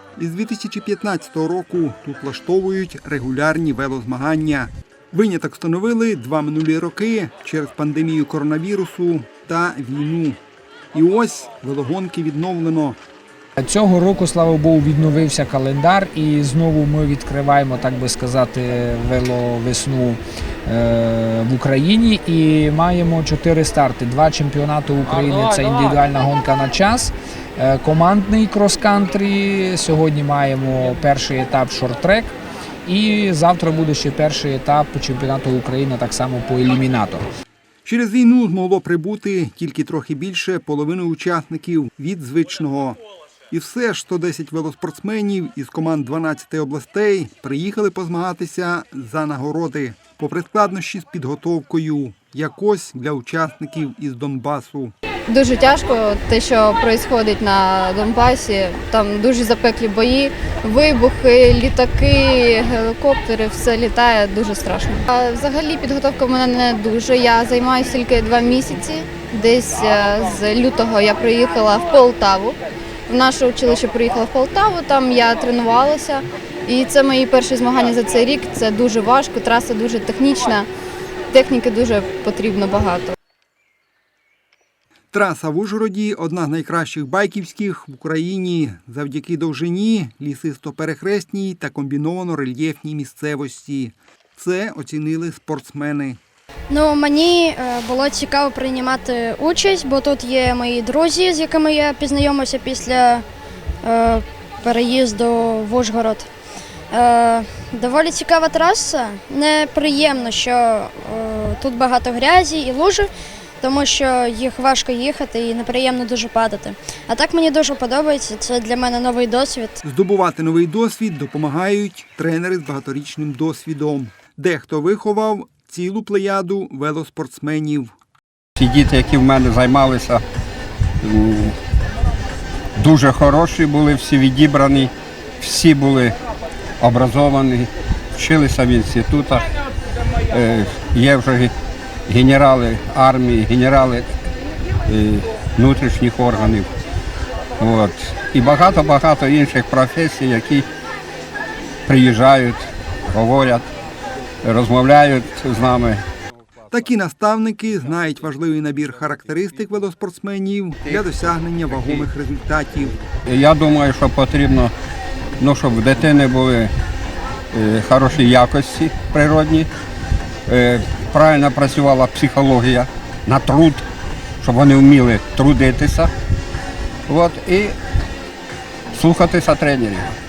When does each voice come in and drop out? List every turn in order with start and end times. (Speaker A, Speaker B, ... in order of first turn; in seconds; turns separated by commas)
Speaker A: 0.2-10.4, Speaker A: 10.9-13.0, Speaker B: 13.6-32.4, Speaker B: 32.9-37.2, Speaker A: 37.9-43.0, Speaker A: 43.5-54.9, Speaker C: 55.3-72.6, Speaker C: 73.1-80.7, Speaker C: 81.3-83.2, Speaker A: 85.1-96.2, Speaker D: 96.7-103.2, Speaker D: 103.8-106.3, Speaker D: 106.9-119.8, Speaker A: 119.8-128.0, Speaker E: 128.6-130.2, Speaker E: 131.0-131.6, Speaker E: 132.8-136.2, Speaker E: 136.8-139.5, Speaker E: 140.3-141.5, Speaker E: 142.1-144.1, Speaker E: 144.9-146.7, Speaker E: 147.6-150.7, Speaker E: 151.9-153.7, Speaker E: 154.4-156.1, Speaker A: 156.7-162.9, Speaker E: 163.3-164.7, Speaker E: 165.4-166.7, Speaker E: 167.5-169.7, Speaker E: 170.5-173.8, Speaker E: 174.4-176.1, Speaker E: 177.1-177.8, Speaker E: 178.9-180.1